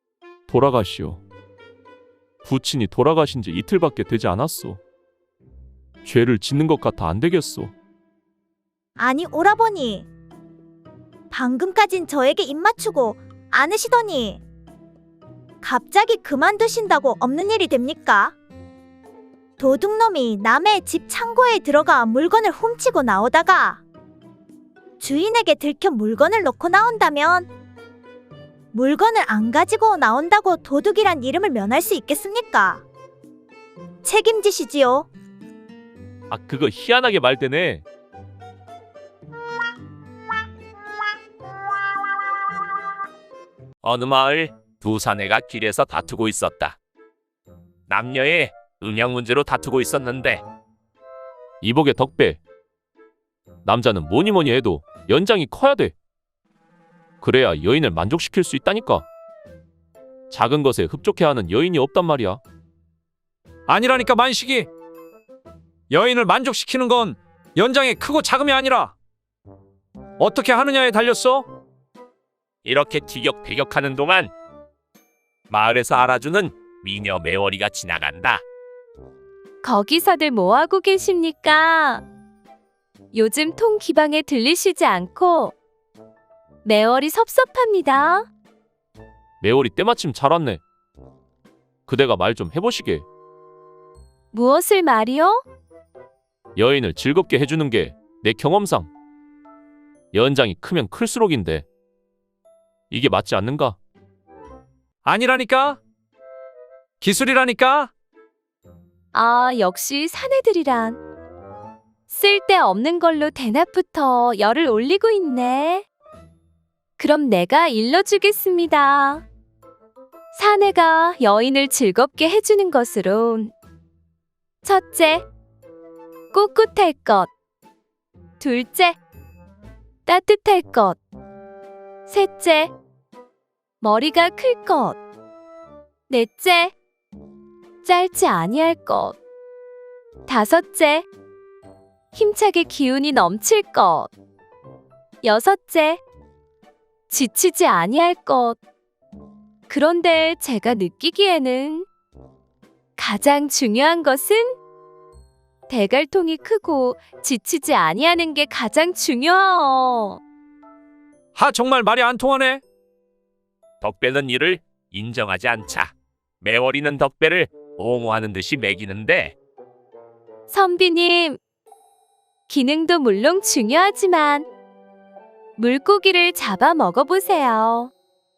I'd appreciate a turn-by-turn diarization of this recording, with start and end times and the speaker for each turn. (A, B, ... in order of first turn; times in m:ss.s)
0:00.5-0:01.2 A
0:02.4-0:04.8 A
0:06.0-0:07.7 A
0:09.0-0:10.1 B
0:11.3-0:14.4 B
0:15.6-0:18.4 B
0:19.6-0:23.8 B
0:25.0-0:27.5 B
0:28.7-0:32.8 B
0:34.0-0:35.1 B
0:36.3-0:37.8 A
0:43.8-0:46.8 C
0:47.9-0:50.4 C
0:51.6-0:52.4 A
0:53.6-0:55.9 A
0:57.2-0:59.1 A
1:00.3-1:02.4 A
1:03.7-1:04.7 D
1:05.9-1:09.0 D
1:10.2-1:11.5 D
1:12.6-1:14.3 C
1:15.5-1:18.4 C
1:19.6-1:22.0 E
1:23.1-1:25.5 E
1:26.6-1:28.3 E
1:29.4-1:30.6 A
1:31.9-1:33.0 A
1:34.3-1:35.4 E
1:36.6-1:38.9 A
1:40.1-1:41.7 A
1:42.9-1:43.8 A
1:45.0-1:45.8 D
1:47.0-1:47.9 D
1:49.1-1:51.0 E
1:52.1-1:55.9 E
1:57.0-1:59.2 E
2:00.3-2:03.5 E
2:04.6-2:05.3 E
2:06.3-2:07.3 E
2:08.4-2:09.0 E
2:10.1-2:11.0 E
2:12.1-2:12.7 E
2:13.8-2:15.0 E
2:16.1-2:16.8 E
2:17.8-2:19.2 E
2:20.3-2:21.1 E
2:22.1-2:24.1 E
2:25.2-2:26.0 E
2:27.1-2:28.6 E
2:29.7-2:31.9 E
2:33.0-2:34.6 E
2:35.7-2:40.2 E
2:41.4-2:42.6 D
2:43.8-2:49.4 C
2:50.5-2:51.4 E
2:52.5-2:54.5 E
2:55.6-2:57.9 E